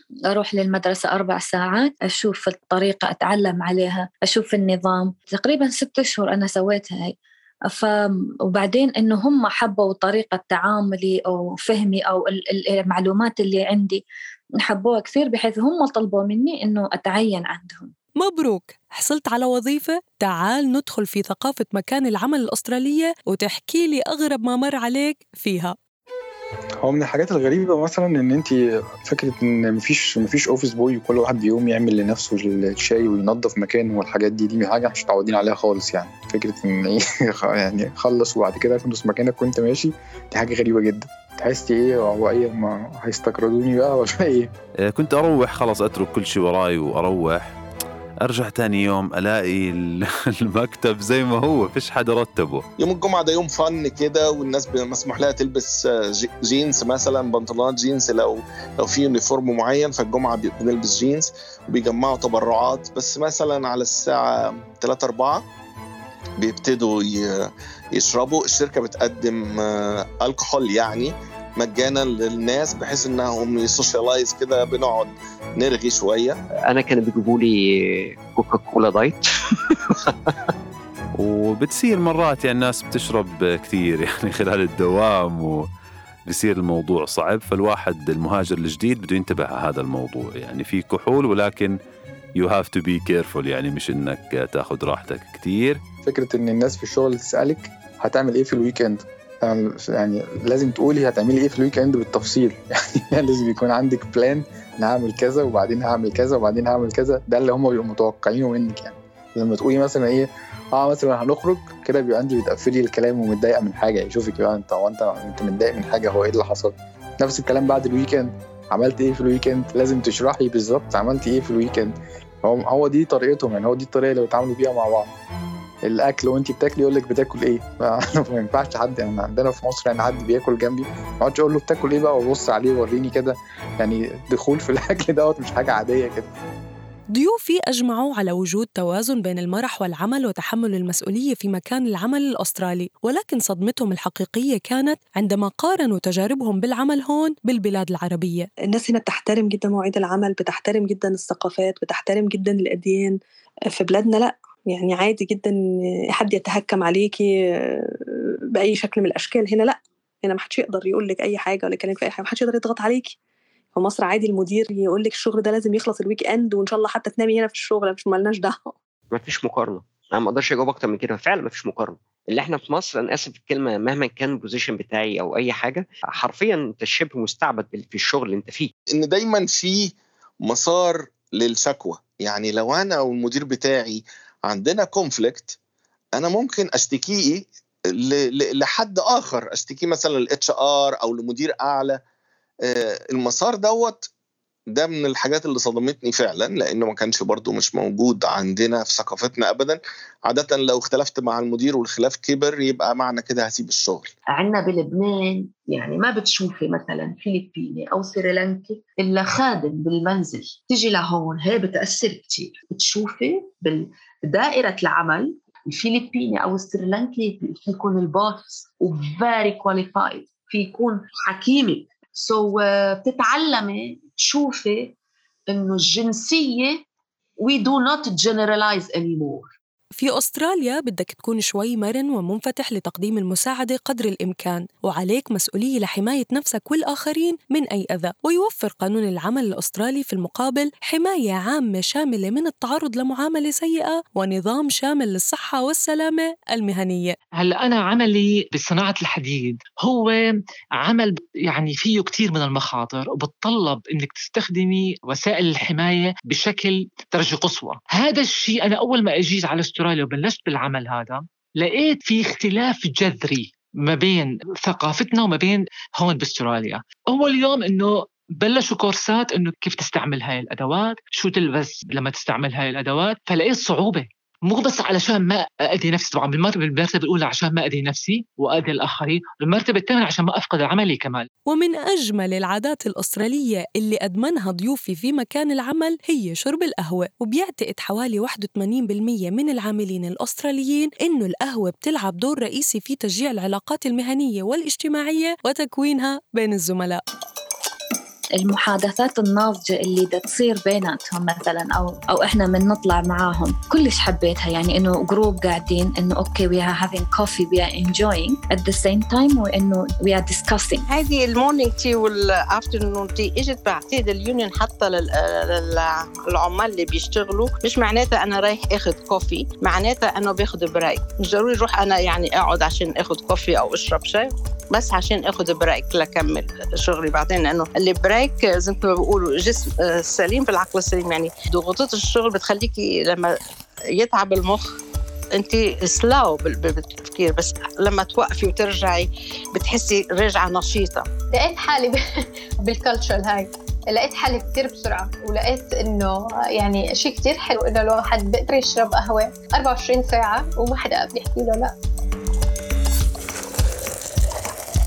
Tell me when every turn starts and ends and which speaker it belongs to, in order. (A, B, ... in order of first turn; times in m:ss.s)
0:00.3-0:07.1 A
0:07.7-0:14.0 A
0:14.6-0:17.9 A
0:18.2-0:25.8 B
0:26.8-0:44.5 C
0:44.9-0:47.4 D
0:48.2-0:49.7 D
0:50.5-0:52.6 D
0:52.8-1:04.2 E
1:04.8-1:05.4 E
1:06.4-1:07.2 E
1:08.0-1:09.6 E
1:10.2-1:16.3 E
1:16.7-1:17.6 F
1:18.4-1:19.2 F
1:21.2-1:25.6 D
1:26.3-1:31.7 D
1:32.4-1:35.8 D
1:36.0-2:05.1 C
2:05.8-2:16.3 C
2:17.1-2:28.5 B
2:28.7-2:33.2 G
2:33.7-2:35.6 G
2:36.1-2:37.3 G
2:38.6-2:43.1 G
2:43.7-2:48.7 G
2:49.1-2:58.7 F
2:59.0-2:59.9 E
3:00.4-3:05.6 E
3:06.2-3:07.5 E
3:08.1-3:12.0 E
3:13.1-3:14.1 E
3:14.7-3:24.1 E
3:24.3-3:44.9 H
3:45.5-3:46.8 H
3:47.4-3:49.5 H
3:50.0-4:07.2 B
4:07.3-4:41.3 I
4:41.5-4:57.0 B
4:58.4-5:10.8 A
5:10.9-5:33.4 J
5:34.0-5:34.7 J
5:35.4-5:41.0 J
5:41.3-5:42.0 K
5:42.6-5:51.7 K